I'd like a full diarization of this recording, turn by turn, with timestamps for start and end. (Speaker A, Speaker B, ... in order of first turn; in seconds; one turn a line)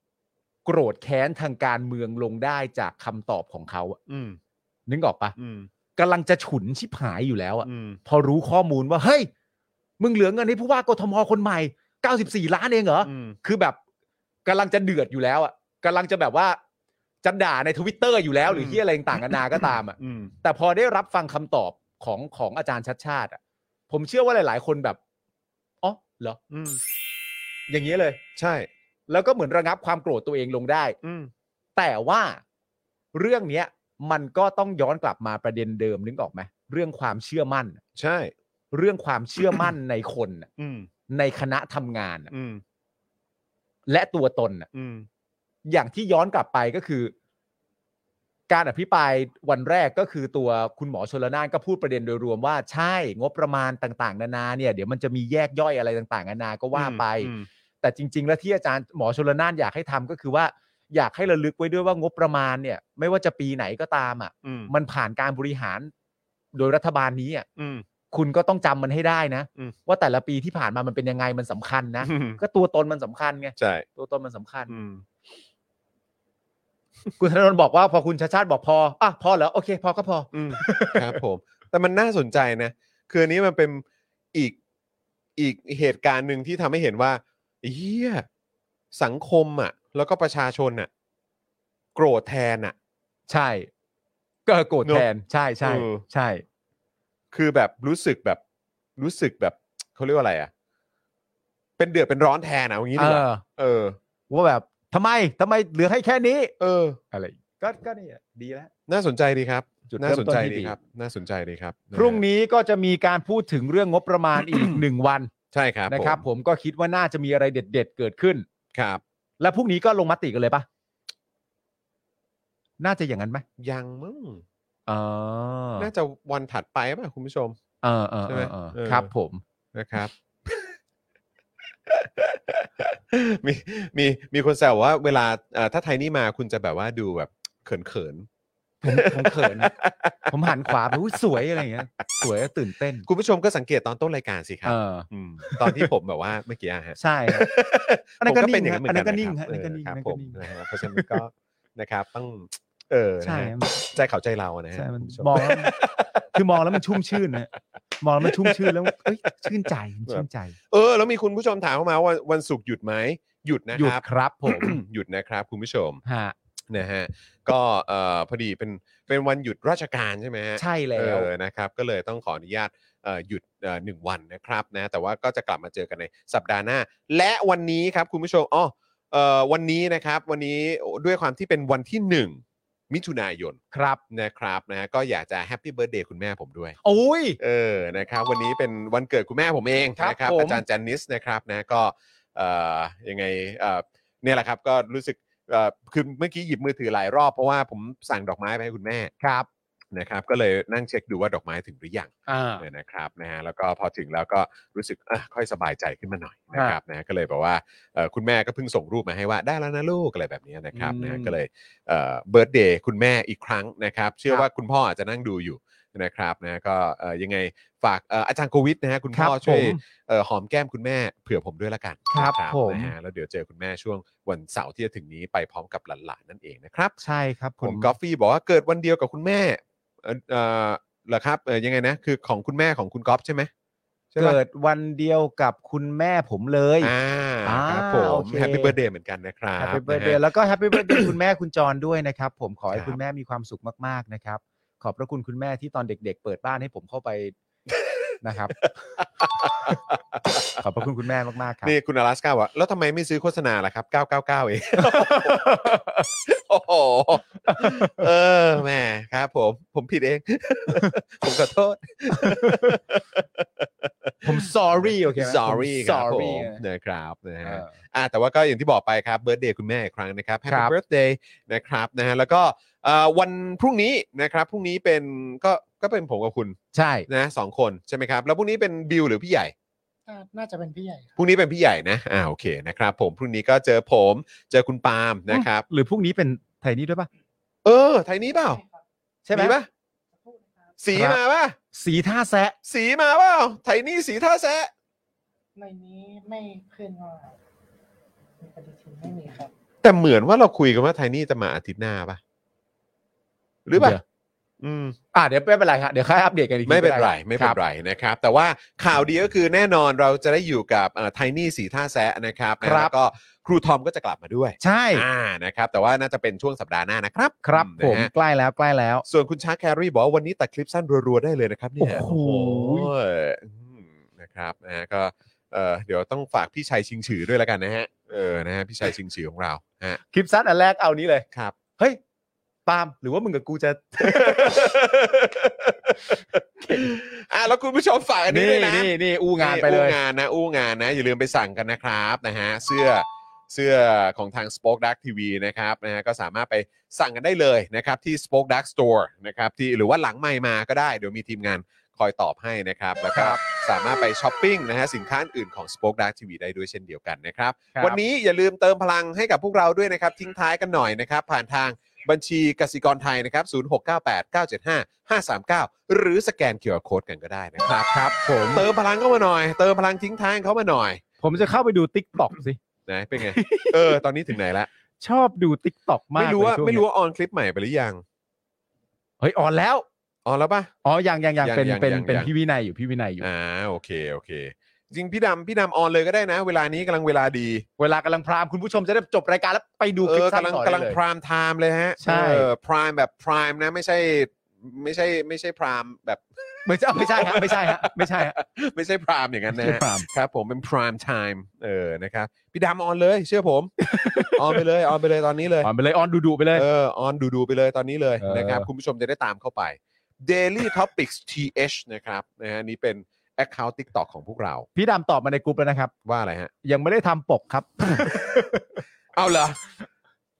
Speaker A: 0.7-4.0
Speaker B: 4.1-4.4
Speaker A: 4.9-5.3
Speaker B: 5.4-5.7
Speaker A: 6.0-9.3
Speaker B: 7.6-8.0
Speaker A: 10.0-13.8
Speaker B: 13.0-13.4
Speaker A: 14.4-16.6
Speaker A: 17.2-23.4
Speaker B: 18.5-19.4
Speaker B: 20.0-20.3
Speaker A: 23.9-25.0
Speaker A: 25.8-26.4
Speaker B: 26.5-26.8
Speaker A: 27.7-28.2
Speaker B: 28.4-28.7
Speaker A: 29.1-31.0
Speaker B: 31.0-31.3
Speaker A: 31.8-32.4
Speaker A: 33.1-37.8
Speaker B: 38.0-38.3
Speaker A: 38.7-40.5
Speaker B: 39.4-39.7
Speaker B: 40.6-40.9
Speaker A: 41.1-42.3
Speaker B: 42.3-42.6
Speaker A: 43.9-44.7
Speaker B: 44.7-45.1
Speaker A: 45.7-47.1
Speaker A: 48.5-65.9
Speaker B: 56.7-57.5
Speaker B: 64.4-64.7
Speaker A: 66.5-67.5
Speaker B: 67.6-67.8
Speaker A: 68.1-74.8
Speaker B: 72.0-72.4
Speaker B: 73.6-73.9
Speaker B: 74.7-75.0
Speaker A: 77.2-81.2
Speaker B: 80.3-84.6
Speaker B: 85.4-88.3
Speaker B: 88.9-90.9
Speaker B: 92.0-92.8
Speaker A: 93.3-93.7
Speaker A: 94.5-96.4
Speaker B: 95.6-96.0
Speaker B: 97.3-98.4
Speaker B: 99.0-100.5
Speaker B: 101.8-104.0
Speaker A: 103.0-103.4
Speaker A: 104.3-106.5
Speaker B: 106.6-107.0
Speaker A: 107.1-108.7
Speaker B: 108.9-112.2
Speaker A: 109.9-110.8
Speaker A: 111.9-115.3
Speaker B: 114.4-114.8
Speaker B: 115.5-116.2
Speaker A: 115.9-118.5
Speaker B: 118.7-119.0
Speaker A: 119.4-120.7
Speaker A: 122.8-123.4
Speaker B: 123.6-124.4
Speaker A: 124.9-125.9
Speaker B: 125.8-127.6
Speaker A: 127.8-129.4
Speaker B: 128.3-129.1
Speaker B: 129.7-130.8
Speaker B: 131.9-138.3
Speaker A: 138.8-139.7
Speaker B: 138.9-140.3
Speaker A: 140.3-143.1
Speaker B: 140.9-141.7
Speaker B: 143.1-157.4
Speaker A: 144.7-145.9
Speaker A: 147.0-147.5
Speaker A: 148.2-151.2
Speaker A: 153.2-153.8
Speaker A: 154.7-155.8
Speaker A: 156.3-160.6
Speaker B: 158.2-159.5
Speaker B: 160.1-166.0
Speaker A: 163.8-164.8
Speaker A: 166.1-166.3
Speaker B: 166.7-183.6
Speaker A: 170.6-171.3
Speaker A: 183.7-184.0
Speaker B: 184.1-186.8
Speaker A: 186.8-187.4
Speaker B: 187.4-199.1
Speaker A: 190.0-190.6
Speaker A: 199.2-199.5
Speaker B: 199.9-226.9
Speaker A: 202.3-202.7
Speaker A: 210.7-211.4
Speaker A: 219.1-219.8
Speaker A: 222.1-222.9
Speaker A: 227.0-227.9
Speaker B: 227.6-233.5
Speaker B: 234.1-234.4
Speaker A: 234.2-236.9
Speaker B: 236.8-240.2
Speaker A: 237.4-238.8
Speaker A: 239.6-247.3
Speaker B: 240.8-241.1
Speaker B: 242.7-243.0
Speaker B: 247.7-250.6
Speaker A: 248.2-248.6
Speaker A: 249.4-249.8
Speaker A: 250.6-251.7
Speaker B: 251.6-255.7
Speaker A: 254.8-256.1
Speaker B: 256.3-279.5
Speaker A: 257.5-258.1
Speaker A: 262.1-262.8
Speaker A: 264.2-266.6
Speaker A: 267.4-267.8
Speaker A: 270.5-270.7
Speaker A: 276.7-277.1
Speaker C: 280.1-281.2
Speaker B: 281.2-285.6
Speaker A: 285.3-287.1
Speaker B: 287.6-288.6
Speaker C: 288.4-288.8
Speaker A: 289.3-289.6
Speaker B: 289.3-289.7
Speaker C: 290.1-290.8
Speaker B: 290.8-291.6
Speaker A: 290.9-291.2
Speaker A: 291.7-292.6
Speaker B: 292.6-294.7
Speaker C: 295.6-297.4
Speaker C: 298.4-299.5
Speaker B: 299.8-302.2
Speaker B: 303.7-304.0
Speaker A: 303.8-304.0
Speaker B: 304.6-305.0
Speaker A: 305.1-307.6
Speaker B: 306.7-318.1
Speaker A: 312.6-312.9
Speaker A: 314.6-315.1
Speaker A: 317.4-319.1
Speaker B: 319.1-330.0
Speaker A: 321.8-322.9
Speaker A: 330.1-331.3
Speaker A: 332.7-334.6
Speaker B: 334.0-367.9
Speaker A: 336.6-336.9
Speaker A: 338.3-340.0
Speaker A: 353.1-353.4
Speaker A: 357.7-358.0
Speaker A: 367.9-368.7
Speaker B: 368.5-371.0
Speaker A: 371.2-372.6
Speaker B: 372.9-374.7
Speaker A: 373.2-374.0
Speaker A: 375.0-376.9
Speaker B: 376.2-378.0
Speaker A: 379.2-379.9
Speaker B: 380.2-380.7
Speaker A: 380.9-383.3
Speaker B: 381.4-382.3
Speaker B: 383.2-387.6
Speaker A: 387.8-391.0
Speaker B: 390.0-403.7
Speaker A: 392.0-392.5
Speaker A: 396.6-398.4
Speaker A: 399.6-400.1
Speaker A: 403.8-404.6
Speaker B: 404.3-405.7
Speaker A: 405.6-406.7
Speaker B: 406.5-414.7
Speaker A: 408.2-408.7
Speaker A: 414.8-415.9
Speaker B: 416.1-416.5
Speaker A: 416.6-418.8
Speaker B: 419.1-419.7